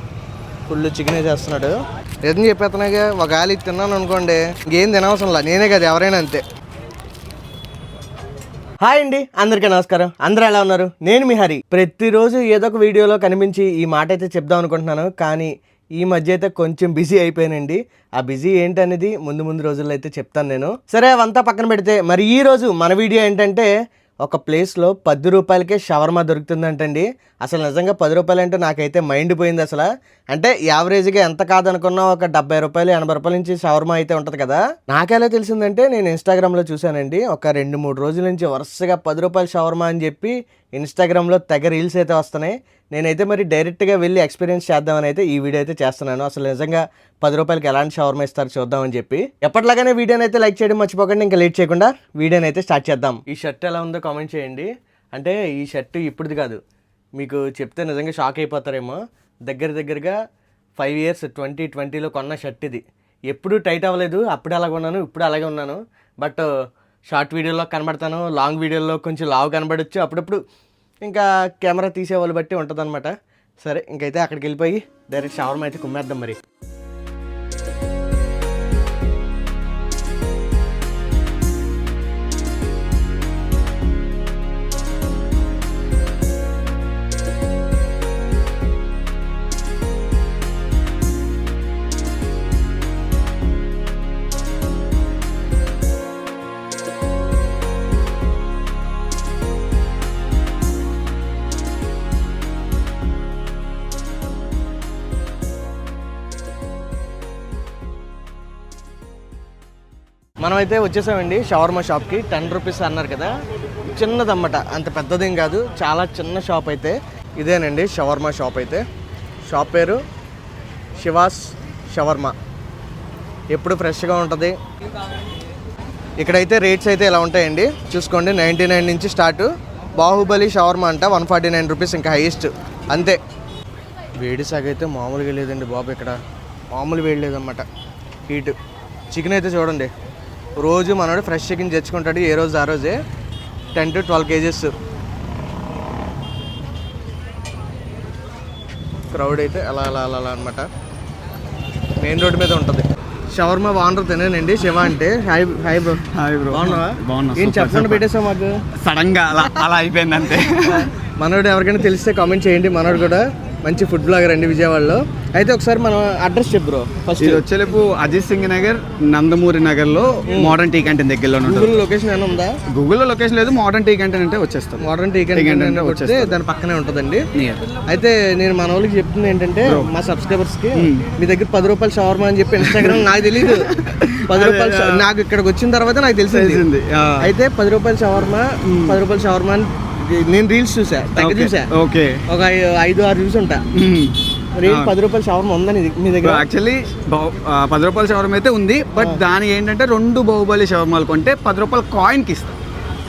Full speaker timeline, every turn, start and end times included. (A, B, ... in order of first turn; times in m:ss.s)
0:00.7-0:01.8 A
0:02.3-0:06.4 A
0:08.8-0:23.7 A
0:24.2-0:56.6 A
0:57.2-1:00.2 A
1:00.8-1:06.5 A
1:07.1-1:10.4 A
1:11.1-1:16.4 A
1:50.4-1:53.3 A
1:53.8-1:58.8 A
1:59.5-2:00.0 A
2:01.0-2:02.3 A
2:03.5-2:04.5 A
2:06.2-2:13.2 A
2:14.2-2:16.2 A
2:16.7-2:17.6 A
2:18.3-2:18.6 A
2:19.1-2:19.9 A
2:20.6-2:23.0 A
2:23.8-2:24.7 A
2:29.1-2:30.7 A
2:32.0-2:38.6 A
2:36.1-2:38.1 B
2:38.8-2:40.9 B
2:41.2-2:47.4 A
2:47.2-2:51.8 B
2:50.3-2:50.6 A
2:51.4-2:52.6 A
2:52.7-2:56.4 B
2:54.8-2:57.2 A
2:57.4-2:57.7 B
2:57.9-3:03.7 A
2:59.6-2:59.9 B
3:00.8-3:01.1 B
3:02.6-3:05.0 B
3:04.3-3:06.6 A
3:06.3-3:07.3 B
3:07.2-3:11.7 A
3:08.6-3:09.0 B
3:11.2-3:12.2 B
3:12.3-3:13.6 A
3:13.8-3:15.0 B
3:14.6-3:16.4 A
3:16.2-3:22.6 B